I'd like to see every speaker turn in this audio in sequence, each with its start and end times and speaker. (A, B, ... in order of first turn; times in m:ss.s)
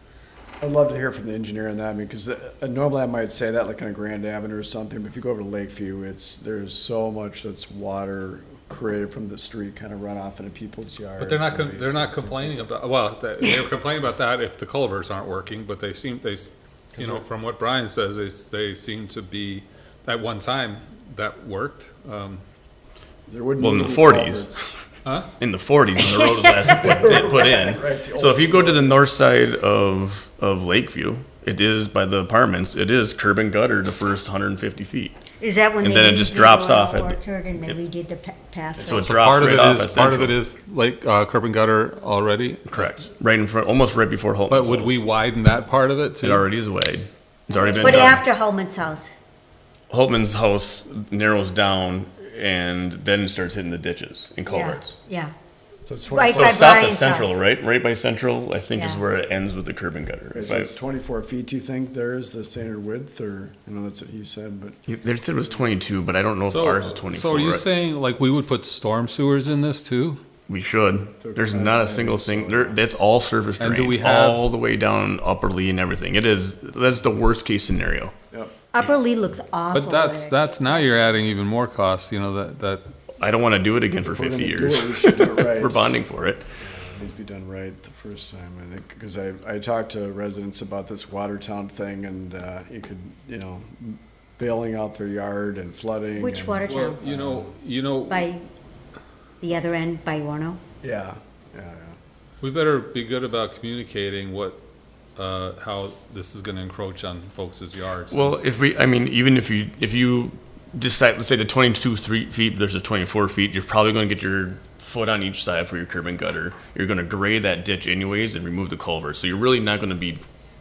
0:00.6-0:12.6 A
0:11.2-0:22.4 B
0:17.0-0:17.2 A
0:23.3-0:24.8 A
0:23.6-0:24.6 C
0:25.4-0:35.2 C
0:26.0-0:26.6 D
0:26.6-0:29.0 A
0:35.4-0:39.3 D
0:35.8-0:37.8 C
0:38.8-0:40.4 C
0:38.9-0:43.0 B
0:42.7-0:45.0 C
0:44.5-0:46.5 B
0:46.2-0:48.2 C
0:47.5-0:49.1 D
0:47.6-0:48.1 A
0:49.9-0:55.0 C
0:54.4-0:55.3 D
0:55.9-0:56.7 A
0:56.1-0:57.4 D
0:56.3-1:00.7 C
0:58.7-0:59.0 D
1:00.3-1:04.8 A
1:04.9-1:07.7 C
1:06.5-1:10.2 B
1:10.5-1:18.1 C
1:11.2-1:12.8 A
1:13.6-1:14.4 B
1:18.7-1:21.2 D
1:19.7-1:22.9 B
1:23.2-1:26.4 C
1:24.0-1:26.0 A
1:26.6-1:37.5 A
1:36.1-1:37.0 D
1:36.6-1:38.3 B
1:38.1-1:38.4 D
1:39.4-1:40.6 D
1:40.8-1:42.0 A
1:42.4-1:44.6 B
1:45.2-1:48.4 B
1:48.1-2:00.2 C